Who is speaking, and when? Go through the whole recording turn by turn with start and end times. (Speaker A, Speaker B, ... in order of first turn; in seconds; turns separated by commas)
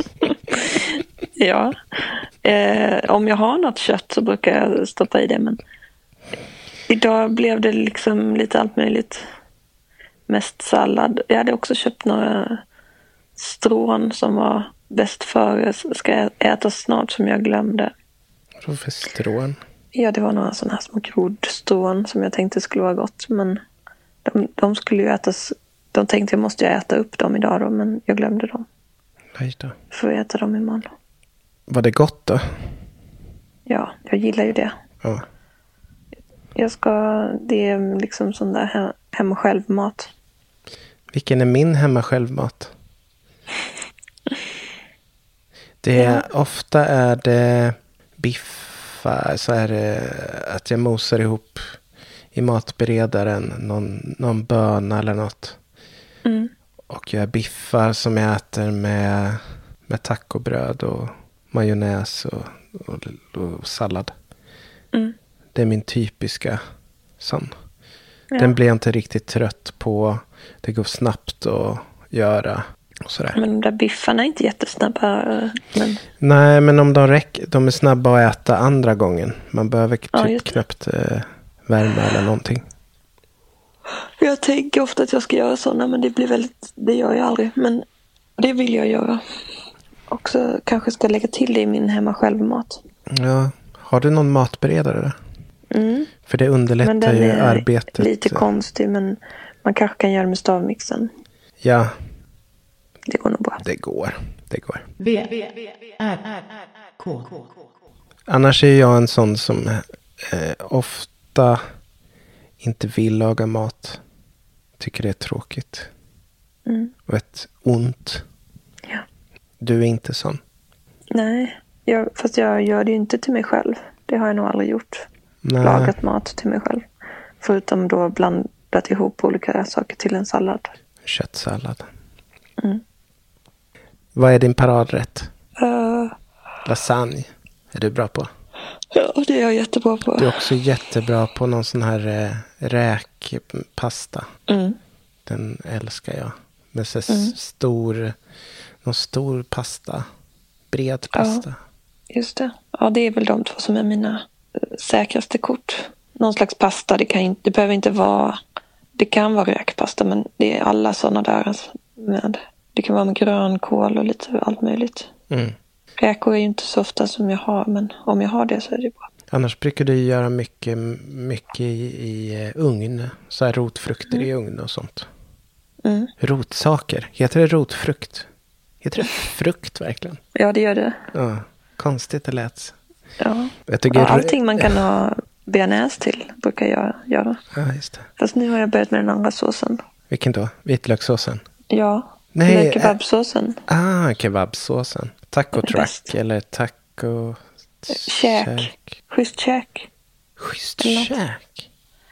Speaker A: 0.2-5.6, Speaker A: 6.9-9.2, Speaker A: 10.3-12.6, Speaker A: 13.4-17.9, Speaker B: 18.6-19.6, Speaker A: 19.9-23.6, Speaker A: 24.2-28.7, Speaker B: 29.3-29.8, Speaker A: 29.9-30.9, Speaker B: 31.7-32.6, Speaker A: 33.7-34.8, Speaker A: 36.5-40.1, Speaker B: 41.1-42.7, Speaker B: 45.8-51.8, Speaker A: 46.0-46.2, Speaker B: 52.3-55.6, Speaker A: 56.2-56.5, Speaker B: 56.9-64.1, Speaker B: 65.5-66.6, Speaker B: 67.2-67.5, Speaker B: 68.4-73.4, Speaker A: 73.3-76.0, Speaker B: 76.2-82.6, Speaker A: 80.1-80.6, Speaker A: 84.2-87.8, Speaker A: 88.4-89.2, Speaker A: 90.1-92.8, Speaker B: 93.1-95.2, Speaker A: 95.7-96.1, Speaker B: 96.3-98.5, Speaker A: 96.8-101.1, Speaker B: 101.6-101.9, Speaker A: 103.1-103.6, Speaker B: 103.6-104.9, Speaker B: 108.3-111.6, Speaker B: 112.6-114.0, Speaker B: 114.8-115.9, Speaker A: 116.7-116.9, Speaker B: 117.1-118.2, Speaker B: 119.6-120.4, Speaker A: 121.1-125.1, Speaker B: 125.4-126.0, Speaker A: 125.6-126.8, Speaker A: 127.4-130.7, Speaker B: 131.0-131.9, Speaker B: 134.2-135.3, Speaker A: 135.6-136.2, Speaker B: 136.7-138.3, Speaker A: 138.9-140.4, Speaker B: 140.2-144.3, Speaker A: 144.5-144.8, Speaker B: 145.3-148.2, Speaker A: 147.1-147.3, Speaker B: 148.8-150.1, Speaker B: 150.7-151.6, Speaker A: 151.1-151.4, Speaker A: 152.1-158.4, Speaker A: 159.0-165.1, Speaker B: 165.3-165.6, Speaker A: 166.0-169.1, Speaker B: 169.3-175.1, Speaker A: 175.8-176.1, Speaker B: 176.2-178.3, Speaker B: 178.8-180.2, Speaker A: 180.3-181.1, Speaker B: 181.1-182.8, Speaker A: 183.2-187.4, Speaker B: 183.7-184.7, Speaker B: 187.5-188.1, Speaker A: 188.2-189.8, Speaker B: 190.1-191.4, Speaker A: 191.7-193.6, Speaker B: 192.3-193.0, Speaker B: 193.7-198.8, Speaker A: 195.6-196.1, Speaker A: 197.9-199.9, Speaker B: 200.4-201.7, Speaker A: 200.8-201.2